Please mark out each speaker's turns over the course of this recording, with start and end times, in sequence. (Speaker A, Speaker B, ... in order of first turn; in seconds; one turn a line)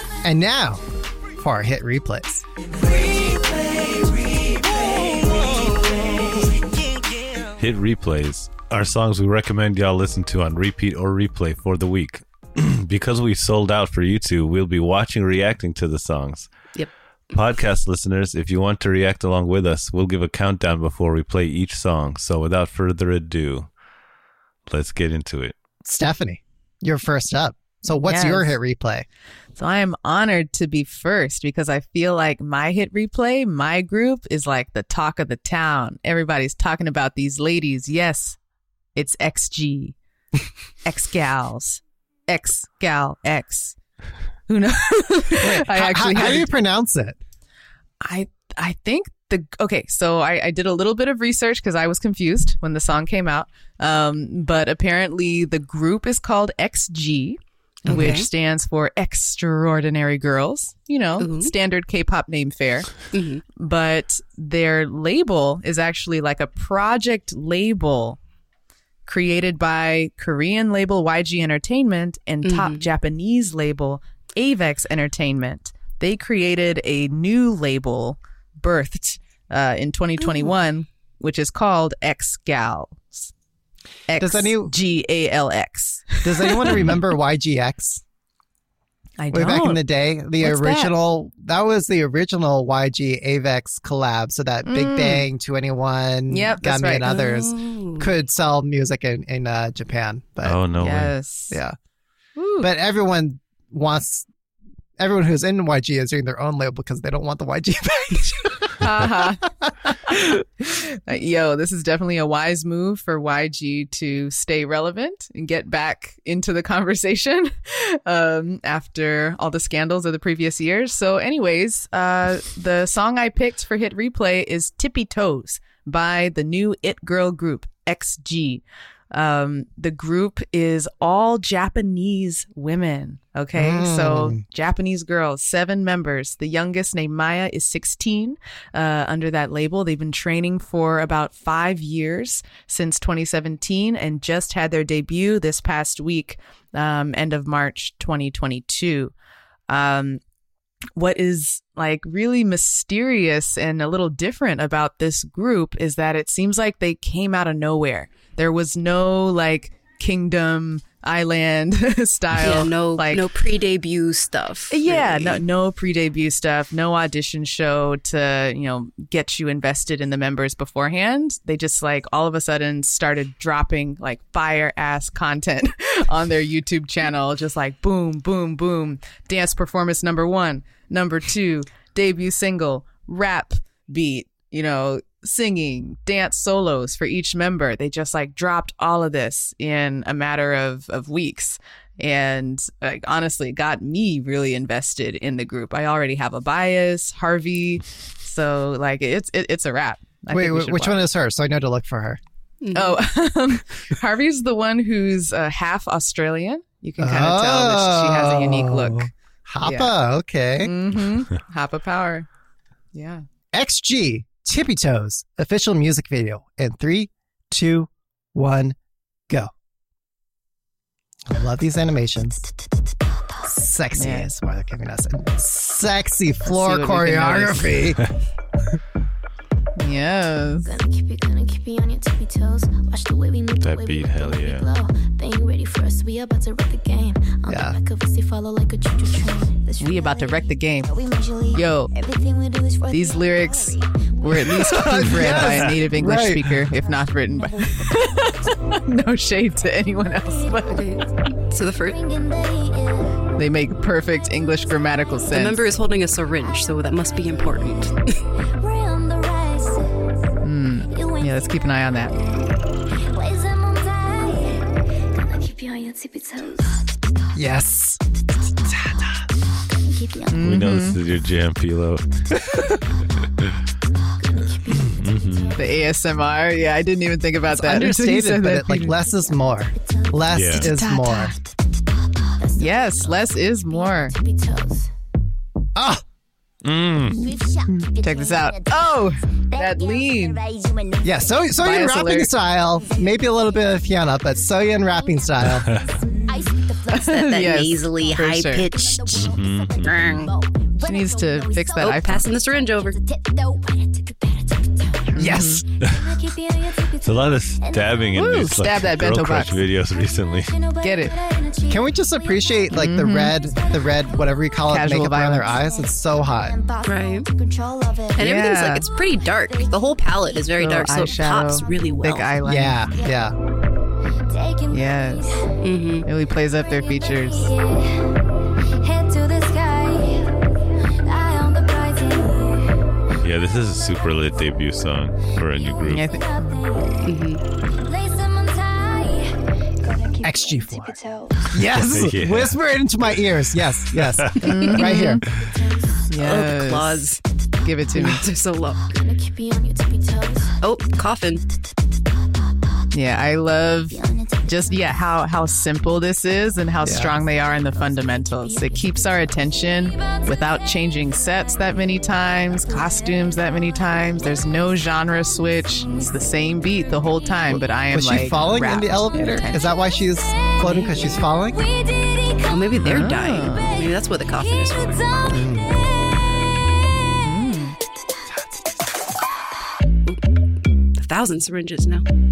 Speaker A: 0.2-0.8
Speaker A: 1.4-2.5
Speaker B: 3.2-4.5
Speaker B: 5.0-6.1
Speaker C: 7.6-16.5
Speaker C: 17.3-23.7
Speaker C: 24.7-25.6
Speaker A: 25.8-29.1
Speaker D: 27.9-28.6
Speaker D: 29.6-38.4
Speaker D: 38.9-40.0
Speaker D: 40.8-43.8
Speaker D: 44.5-46.5
Speaker A: 45.4-47.2
Speaker D: 48.0-62.9
Speaker E: 57.9-58.3
Speaker E: 61.2-61.5
Speaker E: 63.1-63.4
Speaker D: 63.5-68.2
Speaker D: 69.1-83.3
Speaker E: 72.4-72.8
Speaker D: 84.1-86.9
Speaker A: 84.2-84.7
Speaker A: 86.2-88.0
Speaker C: 86.7-87.0
Speaker D: 89.2-89.8
Speaker A: 89.3-100.6
Speaker D: 90.4-90.9
Speaker D: 94.6-95.3
Speaker D: 96.3-97.1
Speaker E: 97.0-98.1
Speaker C: 100.4-101.1
Speaker D: 100.8-101.6
Speaker A: 101.5-101.8
Speaker D: 102.3-102.7
Speaker A: 102.6-104.3
Speaker A: 105.0-109.9
Speaker D: 108.8-109.5
Speaker D: 110.0-149.1
Speaker A: 133.5-134.4
Speaker D: 149.7-150.2
Speaker D: 151.0-163.3
Speaker E: 162.4-165.4
Speaker D: 164.7-201.0
Speaker A: 200.3-202.2
Speaker E: 202.6-203.0
Speaker D: 202.7-209.1
Speaker A: 207.0-210.7
Speaker D: 209.6-209.9
Speaker D: 210.6-212.3
Speaker D: 212.9-213.2
Speaker A: 213.5-218.8
Speaker A: 221.2-222.4
Speaker A: 223.4-228.1
Speaker D: 223.9-224.3
Speaker D: 226.4-227.9
Speaker D: 229.8-230.7
Speaker B: 230.6-245.8
Speaker C: 233.6-234.7
Speaker A: 237.4-237.8
Speaker D: 239.8-240.9
Speaker D: 241.5-241.9
Speaker D: 242.9-250.8
Speaker A: 244.7-246.7
Speaker B: 246.7-267.0
Speaker E: 250.7-252.0
Speaker D: 253.3-255.6
Speaker E: 255.3-258.2
Speaker D: 260.4-262.1
Speaker A: 267.3-268.0
Speaker A: 268.6-269.2
Speaker B: 269.8-270.5
Speaker D: 270.3-271.0
Speaker C: 270.4-272.2
Speaker B: 274.2-276.3
Speaker C: 274.9-275.6
Speaker D: 275.5-279.0
Speaker A: 277.5-281.4
Speaker B: 278.9-284.9
Speaker C: 280.3-280.7
Speaker D: 280.7-281.2
Speaker D: 282.6-284.1
Speaker A: 285.8-286.0
Speaker C: 286.6-287.2
Speaker B: 287.1-291.8
Speaker D: 288.0-290.4
Speaker A: 291.0-295.7
Speaker D: 291.6-292.3
Speaker B: 292.6-308.5
Speaker C: 295.4-295.9
Speaker D: 296.9-298.7
Speaker E: 296.9-300.3
Speaker C: 299.1-300.0
Speaker D: 300.9-302.3
Speaker E: 301.8-303.0
Speaker D: 305.1-305.6
Speaker A: 305.1-305.6
Speaker C: 305.8-306.2
Speaker C: 307.0-310.6
Speaker D: 308.1-309.6
Speaker B: 310.4-314.6
Speaker D: 310.8-311.1
Speaker A: 311.7-316.6
Speaker D: 312.7-313.4
Speaker D: 314.6-315.5
Speaker B: 315.2-321.8
Speaker E: 316.8-317.3
Speaker E: 318.1-322.3
Speaker D: 318.2-318.9
Speaker D: 320.5-322.8
Speaker A: 322.4-323.3
Speaker B: 322.9-323.3
Speaker B: 324.3-333.1
Speaker D: 324.7-325.4
Speaker E: 325.6-326.1
Speaker D: 326.0-327.5
Speaker C: 333.2-336.1
Speaker B: 333.6-334.6
Speaker B: 335.4-341.6
Speaker D: 335.9-336.3
Speaker E: 337.0-337.4
Speaker A: 340.2-341.0
Speaker A: 341.5-345.2
Speaker C: 341.5-342.6
Speaker C: 343.9-344.6
Speaker D: 344.4-345.2
Speaker B: 345.2-346.1
Speaker D: 346.1-347.1
Speaker E: 346.2-347.2
Speaker D: 347.6-348.3
Speaker E: 347.9-348.9
Speaker B: 348.8-350.6
Speaker E: 350.6-351.4
Speaker D: 352.9-369.7
Speaker B: 353.9-355.3
Speaker A: 356.8-357.2
Speaker B: 357.4-367.4
Speaker A: 367.5-371.6
Speaker B: 370.3-377.6
Speaker E: 372.4-375.1
Speaker C: 372.7-373.1
Speaker D: 372.8-373.7
Speaker A: 375.3-375.8
Speaker D: 377.2-377.8
Speaker E: 380.9-382.0